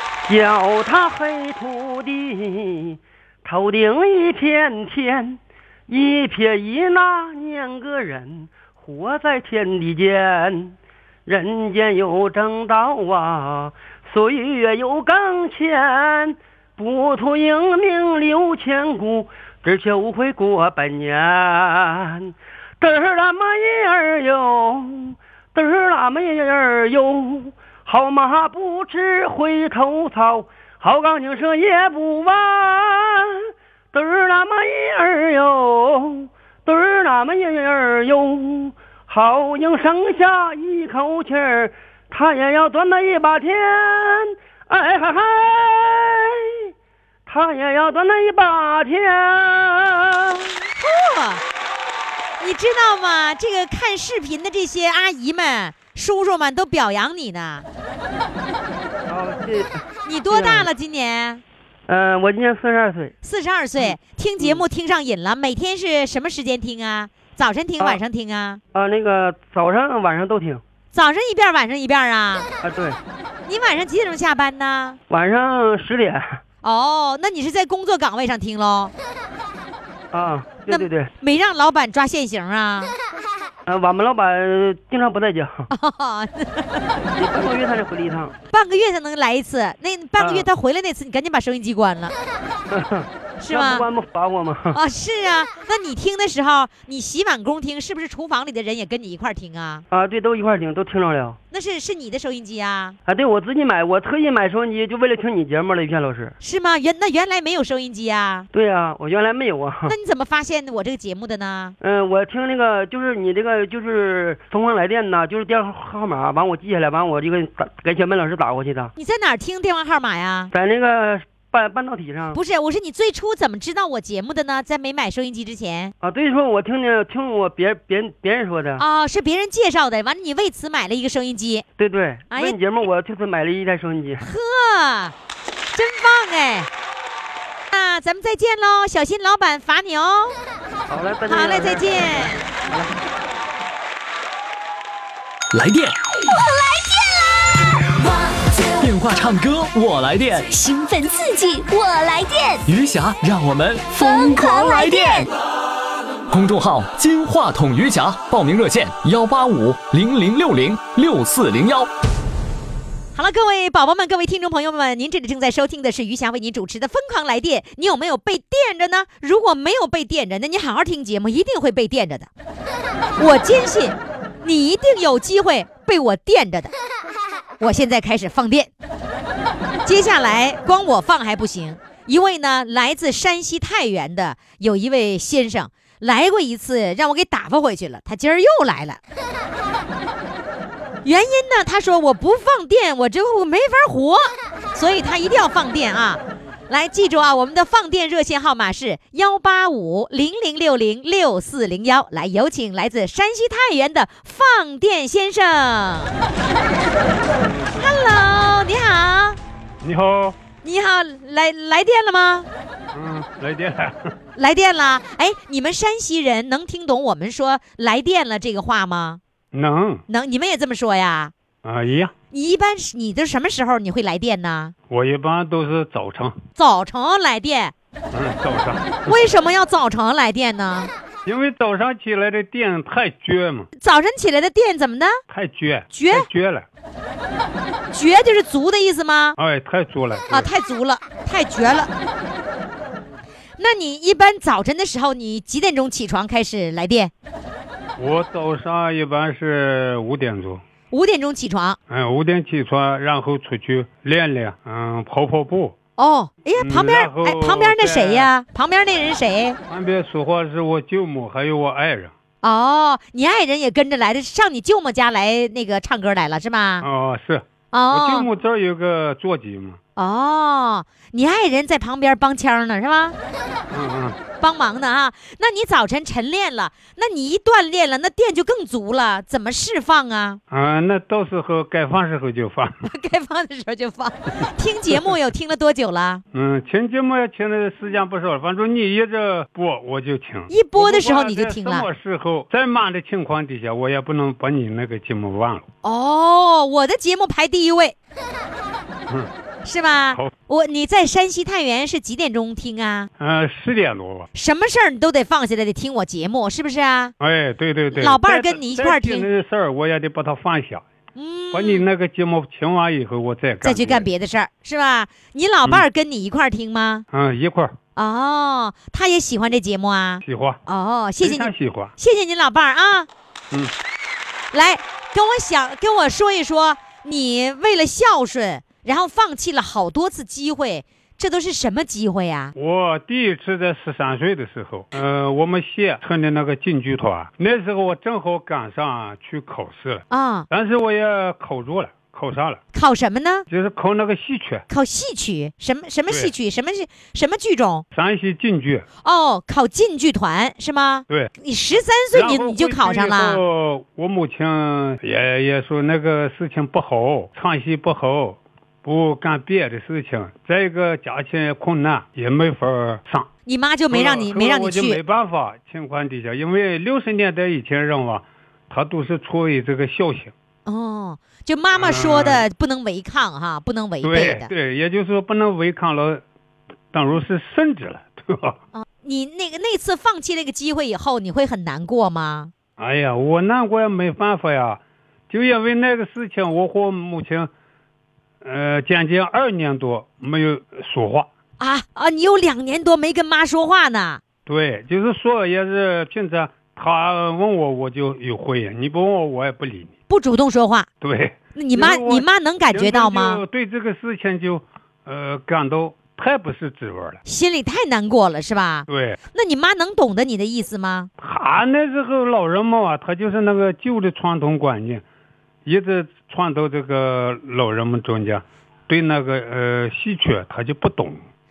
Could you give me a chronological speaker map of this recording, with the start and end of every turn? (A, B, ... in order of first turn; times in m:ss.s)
0:00.3-0:46.7 A
0:47.3-0:50.5 A
0:50.8-0:51.4 B
0:52.4-0:57.7 B
0:59.1-1:00.7 A
1:00.1-1:01.4 B
1:01.9-1:03.1 A
1:03.2-1:08.6 B
1:03.8-1:04.6 A
1:08.7-1:10.6 A
1:10.9-1:12.5 B
1:12.6-1:13.0 A
1:13.5-1:15.0 B
1:15.1-1:16.4 A
1:16.6-1:18.9 B
1:20.1-1:21.1 A
1:20.7-1:23.0 B
1:23.7-1:25.7 A
1:25.7-1:26.9 B
1:27.0-1:28.3 A
1:28.5-1:32.1 B
1:30.2-1:30.5 A
1:32.7-1:34.8 A
1:33.4-1:33.8 B
1:34.7-1:39.8 B
1:39.9-1:41.4 A
1:41.5-1:43.0 B
1:43.1-1:46.4 A
1:46.4-1:48.5 B
1:48.5-1:50.0 A
1:49.9-1:51.8 B
1:51.8-1:58.9 A
1:59.0-2:00.5 B
2:00.5-2:02.4 A
2:02.3-2:05.9 B
2:06.0-2:08.8 A
2:08.8-2:11.6 B
2:11.8-2:14.3 A
2:14.2-2:15.1 B
2:15.7-2:16.7 B
2:17.7-2:20.4 B
2:20.9-2:23.0 A
2:21.3-2:22.4 B
2:25.5-2:26.0 C
2:26.3-2:27.5 D
2:28.8-2:30.6 C
2:30.5-2:32.6 D
2:32.7-2:35.3 C
2:34.0-2:35.3 D
2:36.3-2:41.9 C
2:43.1-2:52.3 B
2:53.2-2:56.7 B
2:57.6-2:58.7 B
2:59.8-3:09.0 B
3:11.0-3:26.2 B
3:27.8-3:29.4 B
3:29.8-3:30.4 E
3:30.6-3:32.5 B
3:32.9-3:34.1 E
3:34.4-3:39.2 B
3:39.5-3:40.0 E
3:40.1-3:41.3 B
3:41.6-3:42.1 E
3:42.3-3:44.7 B
3:44.9-3:46.4 E
3:46.6-3:47.7 B
3:48.1-3:49.2 E
3:49.1-3:50.9 B
3:51.3-3:53.7 E
3:53.8-3:55.2 B
3:55.3-3:56.7 E
3:55.9-3:56.3 B
3:57.9-3:59.4 B
3:59.4-4:00.5 E
4:00.3-4:01.9 B
4:03.6-4:07.1 B
4:08.0-4:10.6 E
4:10.9-4:11.8 B
4:11.9-4:15.8 E
4:16.0-4:19.6 B
4:16.6-4:18.3 E
4:19.7-4:22.1 E
4:22.4-4:26.9 B
4:26.8-4:29.8 E
4:27.7-4:28.3 B
4:30.0-4:33.2 B
4:33.7-4:34.2 E
4:34.4-4:40.4 B
4:40.5-4:42.8 E
4:42.8-4:46.2 B
4:46.3-4:55.6 E
4:50.5-4:51.9 B
4:55.8-4:58.0 B
4:59.6-5:03.1 B
5:03.2-5:04.3 E
5:04.3-5:07.1 B
5:07.2-5:10.8 E
5:07.9-5:09.3 B
5:11.2-5:11.8 B
5:11.5-5:14.1 E
5:13.6-5:17.0 B
5:17.1-5:17.8 E
5:18.0-5:23.1 B
5:20.2-5:20.6 E
5:21.2-5:21.9 E
5:24.5-5:32.5 B
5:32.6-5:42.6 E
5:40.1-5:40.5 B
5:42.7-5:43.5 B
5:43.5-5:44.6 E
5:44.7-5:47.8 B
5:47.9-5:48.8 E
5:49.0-5:53.4 B
5:52.1-6:03.3 E
6:03.5-6:05.0 B
6:03.9-6:10.3 E
6:10.7-6:14.5 B
6:11.7-6:12.5 E
6:14.0-6:16.2 E
6:16.9-6:18.6 E
6:18.7-6:22.5 B
6:22.8-6:27.5 E
6:28.4-6:31.3 E
6:31.6-6:34.2 B
6:34.5-6:39.9 E
6:40.1-6:40.9 B
6:41.0-6:47.2 E
6:41.6-6:43.4 B
6:47.2-6:51.1 B
6:48.9-6:49.2 E
6:51.2-6:55.0 E
6:55.6-7:01.2 E